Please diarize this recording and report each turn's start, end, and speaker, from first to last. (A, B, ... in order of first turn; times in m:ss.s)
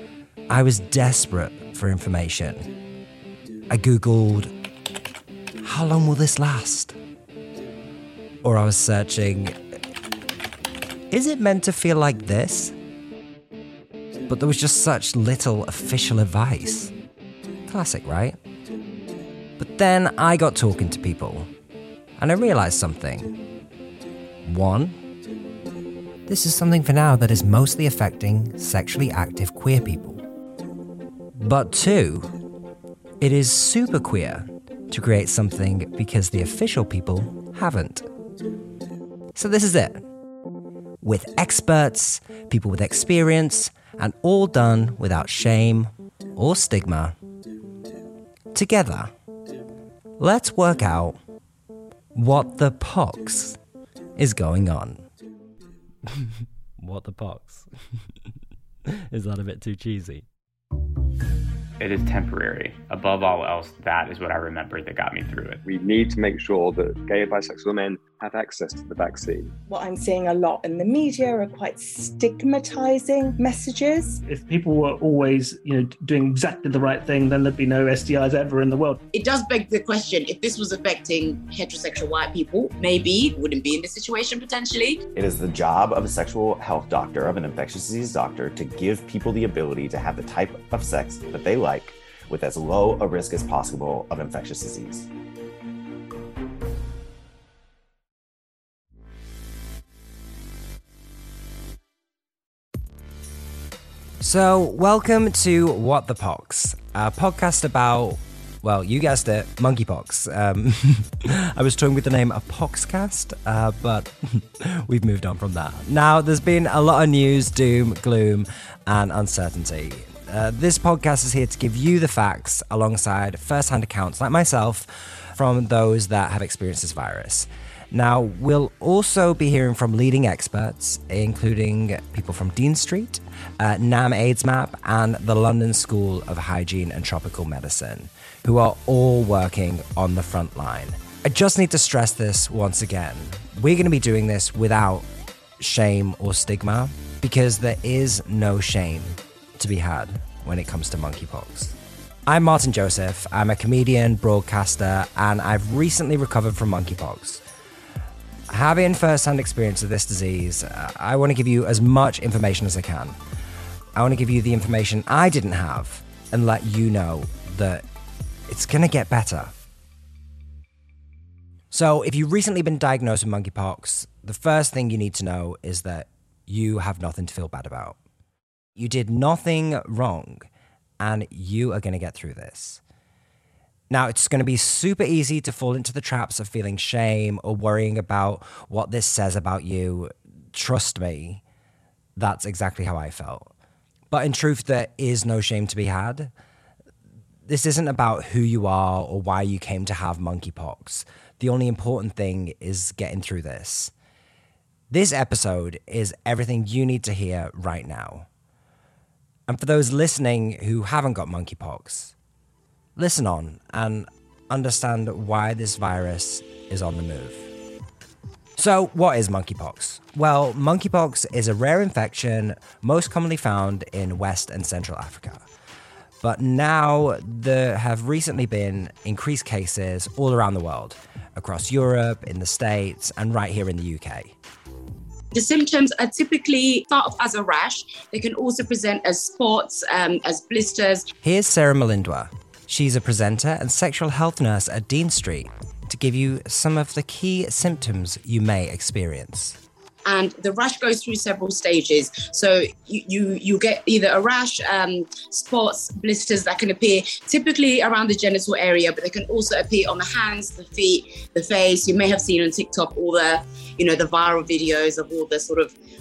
0:00.5-0:02.7 A
0:03.7-0:04.5 A
0:05.6-0:07.0 A
0:08.4-0:09.6 A
0:11.1-0:12.8 A
0:14.2-0:16.9 A
0:17.7-0:18.4 A
0:19.6-0:21.5 A
0:22.2-0:23.4 A
0:24.4-0:25.0 A
0:26.3-0:30.2 A
0:31.3-0:32.3 A
0:33.2-0:38.1 A
0:39.3-0:40.0 A
0:41.0-0:47.2 A
0:48.5-0:49.1 A
0:50.2-0:51.2 A
0:52.1-0:53.6 A
0:54.2-0:55.0 A
0:56.1-0:57.7 A
0:58.9-1:00.2 A
1:01.8-1:05.6 B
1:05.6-1:09.5 C
1:09.7-1:14.2 D
1:14.2-1:19.0 E
1:19.1-1:25.0 F
1:25.1-1:35.1 G
1:44.2-2:25.1 A
2:25.6-2:37.4 A
2:38.5-2:43.2 A
2:44.0-2:47.8 A
2:48.5-2:49.5 A
2:51.7-2:58.0 A
2:58.8-3:00.5 A
3:01.0-3:02.8 A
3:03.9-3:11.4 A
3:12.2-3:13.5 A
3:14.1-3:16.3 A
3:17.5-3:23.9 A
3:24.9-3:28.3 A
3:29.5-3:32.1 A
3:33.0-3:37.5 A
3:38.6-3:45.4 A
3:46.2-3:54.3 A
3:55.3-4:01.1 F
4:01.2-4:09.6 A
4:10.0-4:25.7 F